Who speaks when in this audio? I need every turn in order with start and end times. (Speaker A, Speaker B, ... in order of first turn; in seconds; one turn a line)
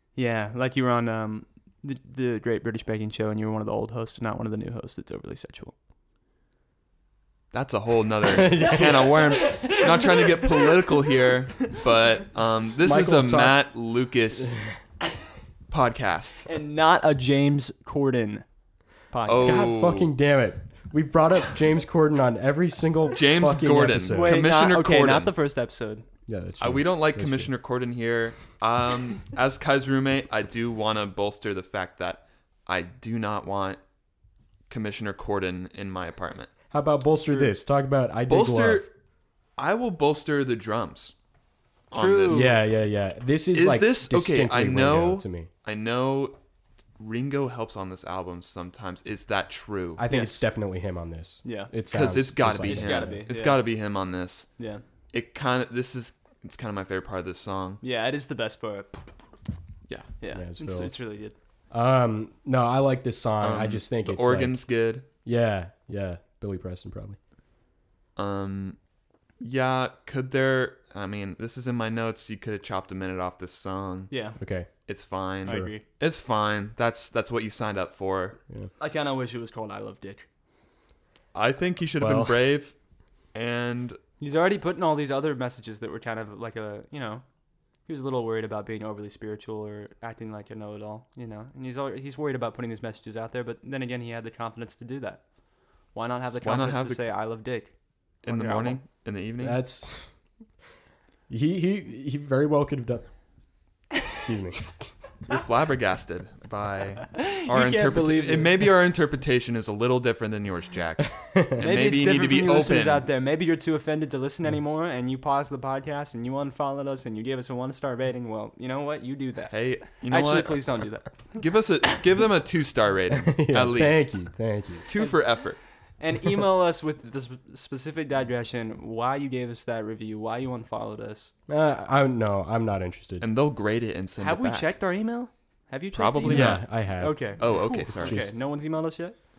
Speaker A: 0.1-5.7
Speaker B: 7.5-14.5
Speaker C: 8.3-9.2
Speaker A: 9.4-10.7
Speaker C: 12.8-13.6
Speaker B: 15.7-16.5
Speaker A: 16.4-18.4
Speaker A: 19.1-19.7
Speaker B: 19.2-20.1
Speaker C: 19.4-24.4
Speaker B: 23.1-25.3
Speaker A: 24.1-26.0
Speaker C: 26.3-27.5
Speaker B: 26.6-33.8
Speaker B: 34.7-36.5
Speaker C: 36.7-38.9
Speaker B: 38.3-38.9
Speaker B: 39.6-41.1
Speaker B: 41.9-42.5
Speaker A: 41.9-42.5
Speaker C: 42.3-45.5
Speaker B: 43.5-46.4
Speaker B: 47.0-50.0
Speaker C: 50.0-53.2
Speaker A: 50.1-50.4
Speaker A: 51.4-51.7
Speaker B: 51.9-54.5
Speaker A: 52.6-53.6
Speaker A: 54.6-54.8
Speaker B: 55.1-57.8
Speaker A: 57.8-59.2
Speaker A: 60.2-61.3
Speaker C: 60.3-60.9
Speaker C: 61.7-64.6
Speaker B: 63.4-65.1
Speaker C: 65.2-67.2
Speaker B: 68.2-68.8
Speaker B: 69.4-74.1
Speaker A: 74.1-74.4
Speaker C: 74.4-74.7
Speaker B: 74.9-78.4
Speaker C: 75.5-75.7
Speaker A: 75.5-75.8
Speaker A: 78.8-80.3
Speaker B: 81.3-82.7
Speaker C: 82.0-82.3
Speaker B: 83.3-84.0
Speaker A: 84.2-87.2
Speaker A: 87.8-95.2
Speaker A: 95.9-97.7
Speaker B: 96.3-97.1
Speaker A: 98.2-98.8
Speaker B: 98.2-99.6
Speaker C: 99.4-100.1
Speaker C: 101.3-103.0
Speaker C: 104.1-104.9
Speaker B: 105.3-113.1
Speaker A: 107.1-108.6
Speaker C: 111.2-111.6
Speaker A: 111.6-121.1
Speaker B: 119.5-125.6
Speaker C: 123.1-124.8
Speaker A: 126.0-131.3
Speaker C: 131.5-133.2
Speaker B: 133.2-134.7
Speaker A: 134.2-139.2
Speaker B: 135.9-136.7
Speaker C: 136.2-138.4
Speaker B: 137.4-138.2